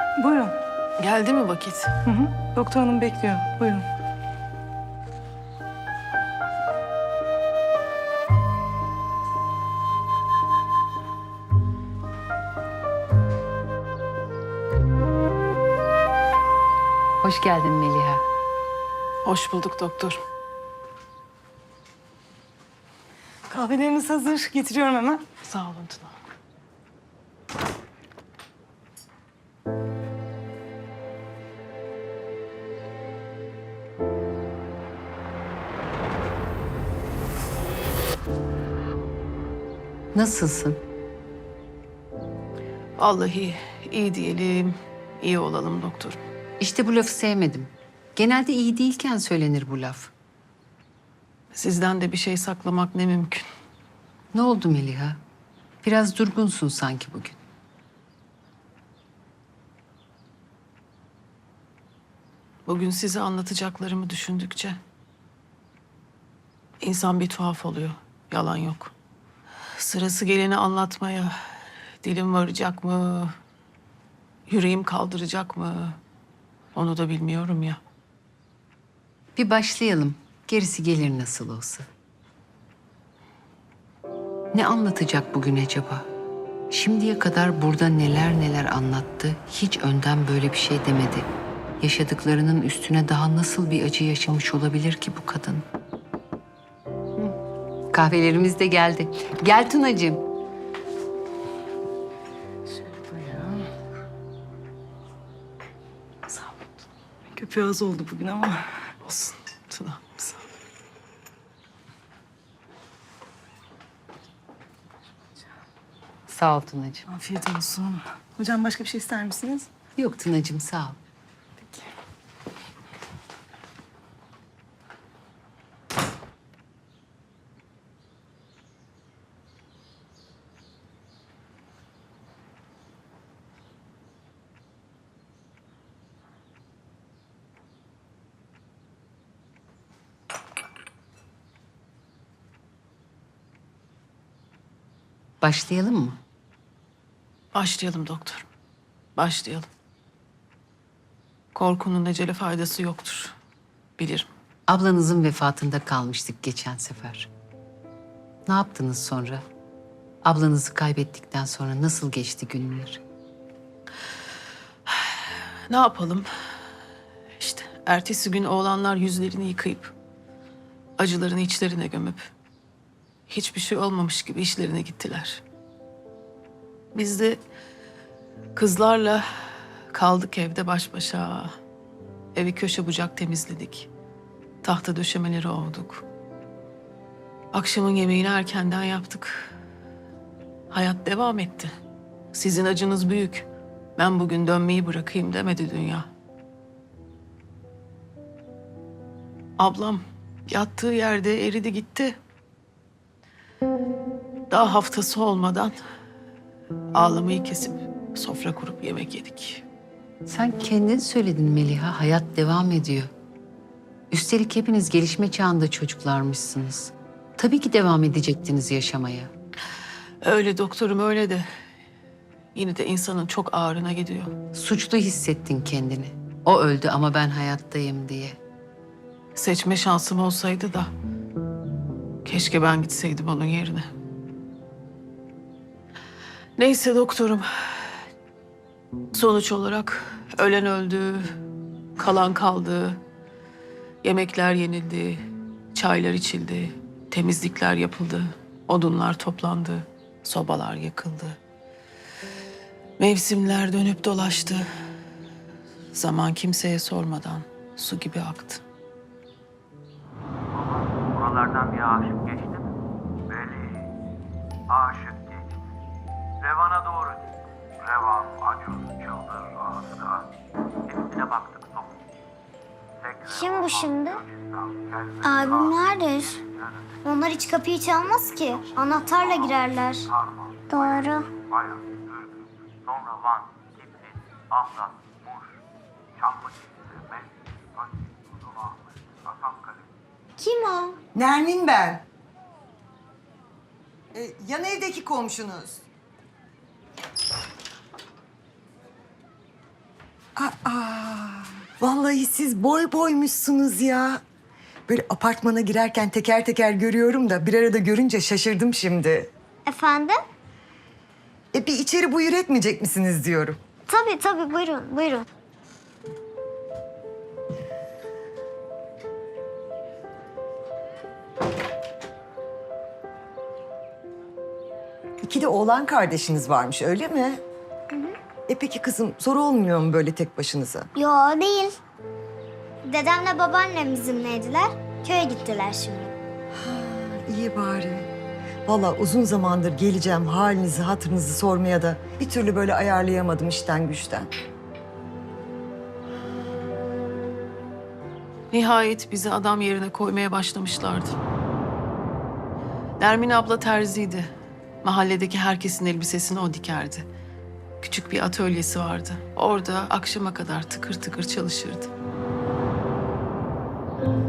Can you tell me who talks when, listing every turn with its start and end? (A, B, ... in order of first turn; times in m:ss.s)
0:00.2-0:00.6 A
0:01.0-0:01.9 B
0:02.1-0:03.8 A
0:17.2-0:18.2 C
0:19.2-0:20.2 B
0:23.5-0:25.2 A
0:25.4-0:26.2 B
0:40.1-0:40.8 C
0:43.0-0:46.2 B
0:46.6-0:50.1 C
0:51.5-0:53.4 B
0:54.3-0:55.2 C
0:55.8-0:57.4 C
1:02.7-1:04.8 B
1:06.8-1:08.9 B
1:09.8-1:11.4 B
1:12.0-1:13.3 B
1:14.5-1:16.0 B
1:16.8-1:17.8 B
1:19.4-1:21.9 C
1:24.5-1:26.1 C
1:26.7-1:31.3 C
1:31.8-1:35.6 C
1:37.9-1:40.2 C
1:42.7-1:43.7 A
1:47.3-1:48.7 A
1:49.0-1:50.5 B
1:56.3-1:57.0 C
1:57.1-1:59.7 A
2:00.0-2:01.0 C
2:25.4-2:26.2 C
2:27.5-2:28.4 B
2:29.2-2:29.7 B
2:31.6-2:33.4 B
2:34.0-2:34.3 B
2:34.7-2:37.3 C
2:38.5-2:39.4 C
2:40.2-2:43.0 C
2:44.9-2:46.3 B
2:47.4-2:49.9 B
2:51.0-2:52.3 B
2:53.3-2:55.4 B
2:57.0-2:57.4 B
2:58.6-3:01.6 B
3:02.4-3:03.9 B
3:04.6-3:06.0 B
3:07.5-3:09.5 B
3:10.7-3:11.7 B
3:12.3-3:16.1 B
3:19.6-3:22.2 B
3:24.5-3:25.8 B
3:27.0-3:29.6 B
3:30.3-3:33.1 C
3:34.1-3:39.3 C
3:40.2-3:41.5 B
3:42.6-3:44.3 B
3:44.5-3:48.4 C
3:49.4-3:50.9 B
3:52.2-3:53.9 B
3:56.6-3:58.0 B
3:59.1-4:01.3 B
4:02.0-4:03.0 B
4:04.0-4:11.4 B
4:13.0-4:14.7 B
4:15.9-4:18.6 B
4:20.6-4:22.7 D
4:23.3-4:23.8 D
4:24.7-4:25.4 D
4:26.4-4:27.2 D
4:27.8-4:30.0 D
4:30.9-4:31.9 D
4:33.1-4:33.9 D
4:33.3-4:34.2 E
4:34.7-4:35.2 D
4:35.2-4:36.4 E
4:37.0-4:40.1 E
4:40.7-4:41.3 E
4:41.6-4:41.8 D
4:42.9-4:43.7 D
4:44.5-4:45.4 D
4:46.2-4:47.2 D
4:50.4-4:51.0 E
4:51.1-4:52.0 F
4:54.1-4:55.8 F
5:00.4-5:04.2 F
5:04.9-5:09.3 F
5:09.7-5:10.2 E
5:11.5-5:13.6 F
5:13.9-5:15.3 E
5:25.2-5:27.4 F
5:28.5-5:30.9 F
5:31.0-5:31.8 E
5:32.8-5:36.1 E
5:36.5-5:38.1 F
5:38.7-5:44.3 F
5:48.5-5:51.2 B
5:53.0-5:54.3 B
5:54.8-5:57.1 B
5:57.8-6:01.9 B